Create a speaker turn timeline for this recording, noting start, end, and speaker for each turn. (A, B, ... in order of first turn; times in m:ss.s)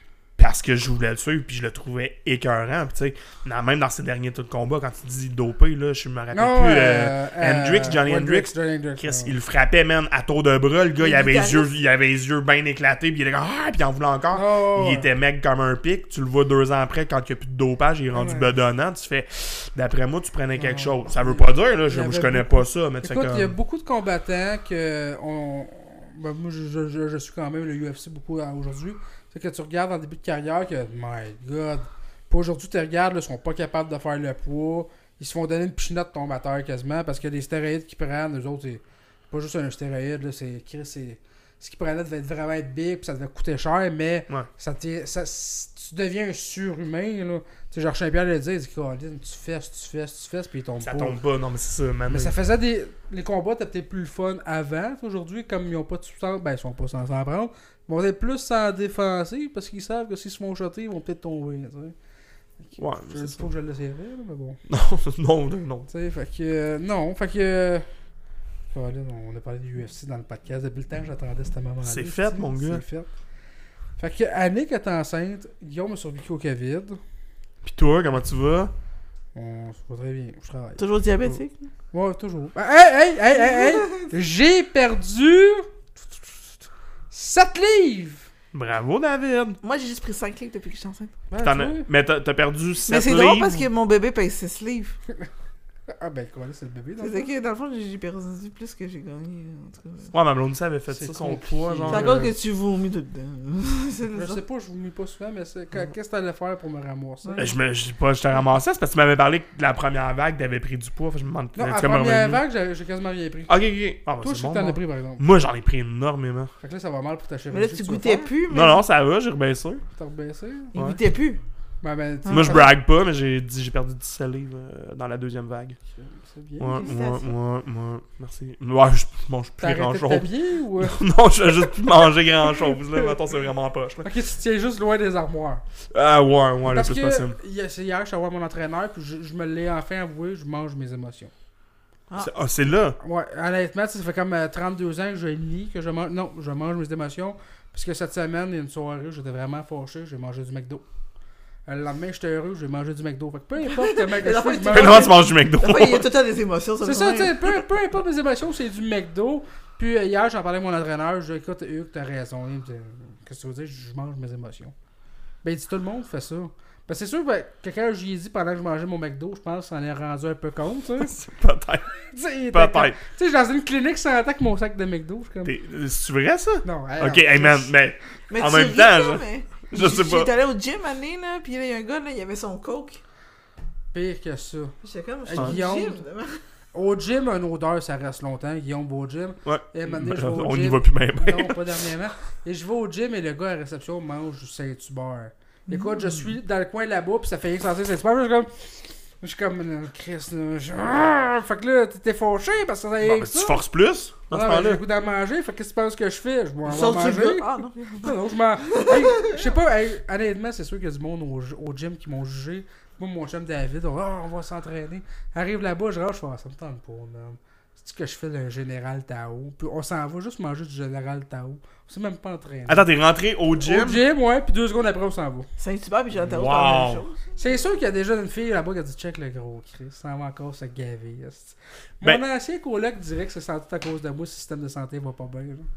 0:00.4-0:23.5 A
0:06.3-0:09.3 B
0:11.0-0:11.7 C
0:14.3-0:15.1 B
0:18.1-0:18.5 B
0:20.6-0:51.2 B
0:50.8-0:52.3 A
0:52.1-1:01.9 B
1:02.6-1:04.6 B
1:02.8-1:03.5 A
1:04.7-1:05.9 A
1:05.9-1:07.9 B
1:08.7-1:13.1 B
1:11.8-1:12.8 A
1:14.0-1:17.0 B
1:17.6-1:18.7 A
1:19.3-1:20.8 B
1:20.8-1:21.5 C
1:21.9-1:25.7 B
1:23.3-1:24.1 C
1:27.1-1:28.2 B
1:28.5-1:29.6 A
1:29.6-1:31.1 C
1:31.3-1:31.9 B
1:31.4-1:33.7 A
1:32.9-1:35.0 C
1:35.9-1:37.3 B
1:37.0-1:40.1 C
1:40.1-1:42.3 A
1:40.9-1:42.3 B
1:41.9-1:44.4 C
1:44.1-1:47.5 B
1:47.2-1:47.5 C
1:47.4-1:52.4 A
1:51.6-1:53.6 B
1:53.5-1:56.5 A
1:54.2-1:55.2 B
1:56.6-1:58.3 B
1:57.5-1:58.8 C
1:58.5-1:59.8 A
1:59.9-2:00.7 B
2:00.7-2:01.4 C
2:01.8-2:02.7 B
2:02.2-2:02.6 C
2:02.3-2:05.8 A
2:05.9-2:06.9 B
2:06.6-2:10.3 A
2:06.8-2:07.3 C
2:09.6-2:11.0 B
2:10.8-2:14.1 A
2:12.6-2:13.1 B
2:14.0-2:15.6 B
2:15.9-2:17.4 A
2:16.7-2:21.3 B
2:22.2-2:23.0 A
2:23.0-2:30.8 B
2:31.7-2:35.2 B
2:33.6-2:37.4 C
2:34.7-2:36.0 A
2:36.8-2:44.7 B
2:45.4-2:51.1 B
2:51.0-2:51.9 A
2:52.1-2:55.5 B
2:52.5-2:53.0 A
2:55.4-3:00.3 A
2:56.6-2:57.7 B
2:58.3-3:03.0 C
3:03.9-3:04.7 B
3:04.8-3:06.4 C
3:05.2-3:06.0 B
3:06.7-3:18.5 B
3:09.4-3:11.6 A
3:15.7-3:16.3 C
3:19.2-3:23.6 B
3:23.0-3:24.8 A
3:24.3-3:27.5 B
3:26.6-3:29.4 C
3:28.0-3:42.9 B
3:42.7-3:44.0 A
3:43.6-3:45.5 B
3:45.6-3:47.3 C
3:46.2-3:47.0 A
3:47.4-3:55.7 B